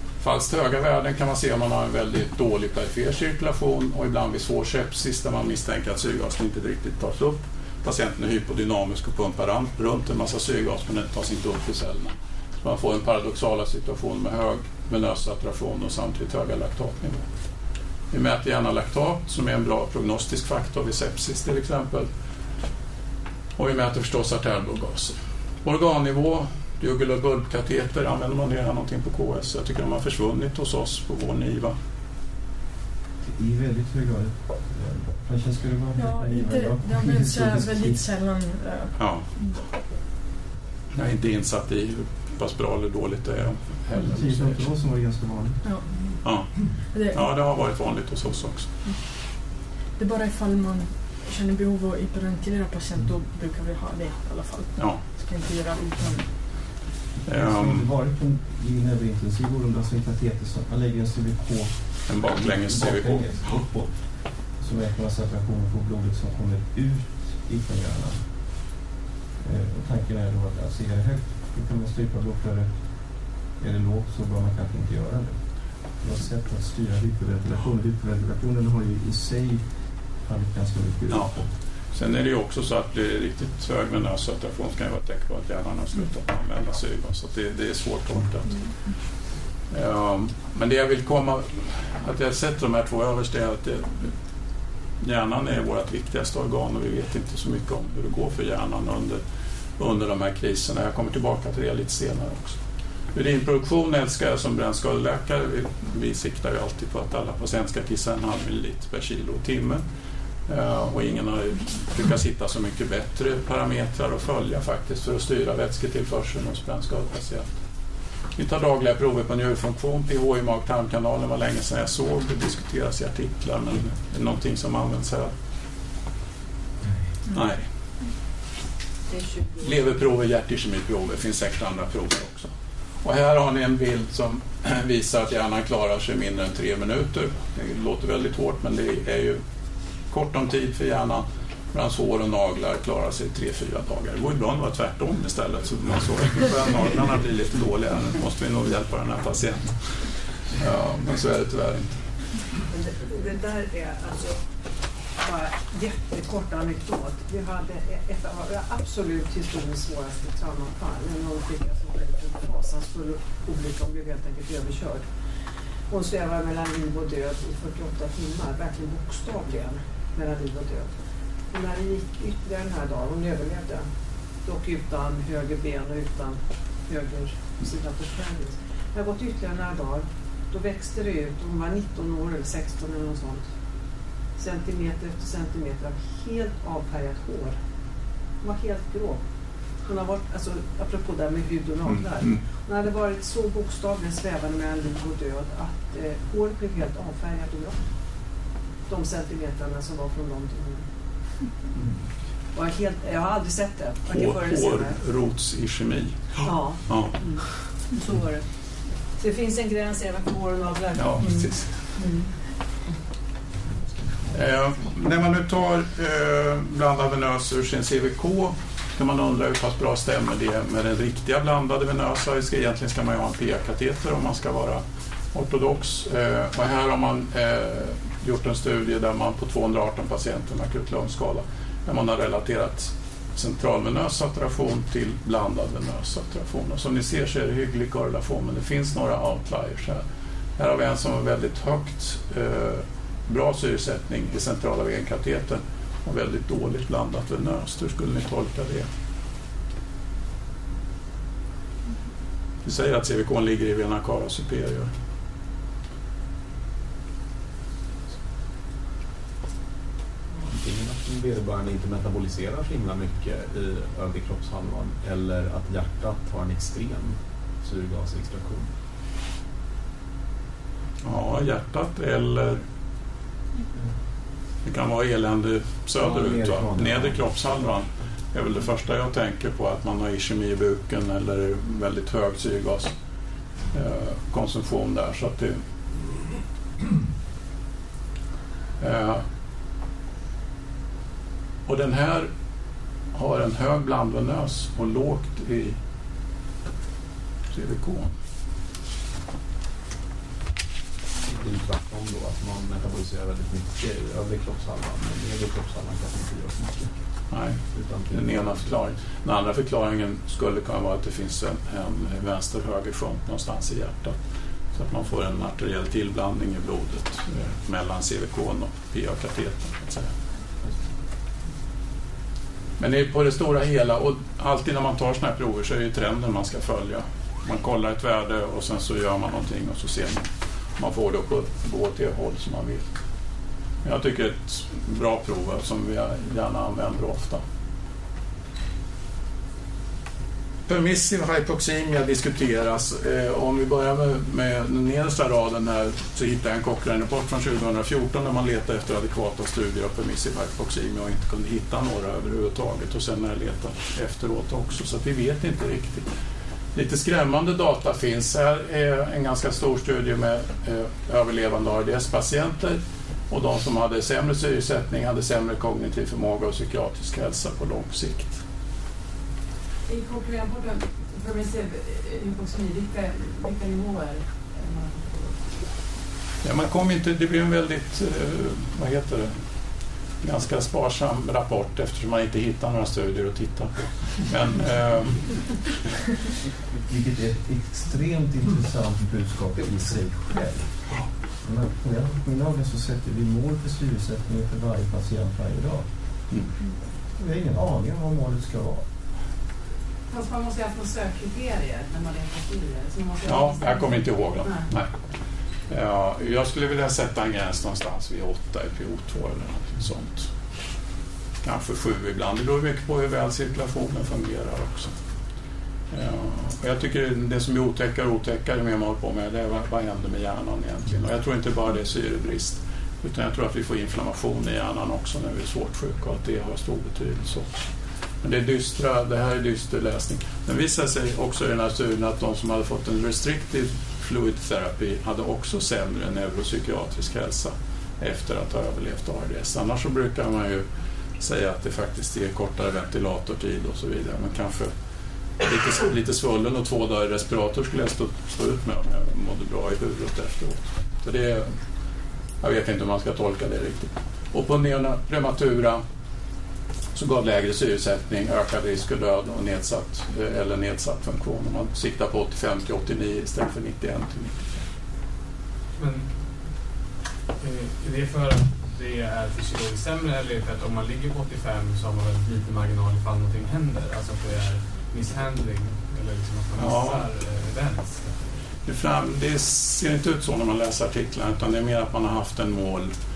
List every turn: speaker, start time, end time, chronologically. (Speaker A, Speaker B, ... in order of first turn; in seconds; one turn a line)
Speaker A: 0.2-17.3
Speaker A: 18.1-22.1
Speaker A: 23.6-31.7
Speaker B: 33.2-38.0
Speaker C: 36.0-39.7
Speaker A: 39.0-39.2
Speaker A: 40.9-44.7
Speaker B: 43.9-45.6
Speaker C: 45.6-46.1
Speaker A: 46.2-48.7
Speaker C: 46.9-47.2
Speaker C: 50.0-56.7
Speaker A: 57.2-57.9
Speaker B: 57.2-68.4
Speaker A: 62.1-63.5
Speaker B: 69.4-81.5
Speaker A: 81.1-81.4
Speaker A: 81.9-88.7
Speaker A: 89.7-94.1
Speaker A: 95.0-99.2
Speaker A: 99.8-102.6
Speaker A: 103.1-109.8
Speaker A: 110.5-117.5
Speaker A: 118.3-125.3
Speaker A: 127.3-127.7
Speaker A: 129.6-132.5
Speaker A: 133.0-139.4
Speaker A: 140.1-152.0
Speaker D: 152.7-154.4
Speaker D: 155.2-165.0
Speaker D: 165.9-170.9
Speaker D: 171.5-173.8
Speaker D: 174.4-183.4
Speaker D: 184.4-187.6
Speaker D: 188.4-189.2
Speaker D: 189.8-197.8
Speaker A: 191.9-192.4
Speaker D: 198.9-200.8
Speaker D: 202.5-205.0
Speaker A: 204.1-207.4
Speaker D: 206.4-208.4
Speaker D: 209.2-212.2
Speaker A: 210.9-211.7
Speaker A: 214.3-240.0
Speaker A: 240.6-248.9
Speaker A: 252.6-254.9
Speaker E: 260.4-268.7
Speaker A: 271.0-272.6
Speaker A: 274.6-282.9
Speaker E: 276.0-277.7
Speaker A: 283.7-285.6
Speaker A: 288.8-289.2
Speaker A: 291.7-292.3
Speaker A: 293.1-295.8
Speaker A: 297.5-298.1
Speaker E: 301.2-306.9
Speaker A: 307.3-314.2
Speaker E: 307.7-308.8
Speaker A: 314.7-320.1
Speaker A: 322.8-332.9
Speaker A: 333.8-337.4
Speaker A: 340.7-356.1
Speaker A: 356.7-368.4
Speaker F: 369.9-375.4
Speaker A: 376.4-379.3
Speaker A: 380.2-385.6
Speaker B: 386.8-395.9
Speaker B: 397.2-398.9
Speaker F: 400.1-404.7
Speaker A: 403.2-404.9
Speaker A: 405.7-410.3
Speaker A: 411.4-414.9
Speaker A: 415.9-427.6
Speaker A: 428.2-440.6
Speaker A: 441.2-444.7
Speaker A: 445.4-451.5
Speaker A: 452.4-455.8
Speaker A: 456.9-464.7
Speaker G: 465.8-466.7
Speaker G: 467.4-478.3
Speaker A: 476.6-477.1
Speaker A: 478.6-482.9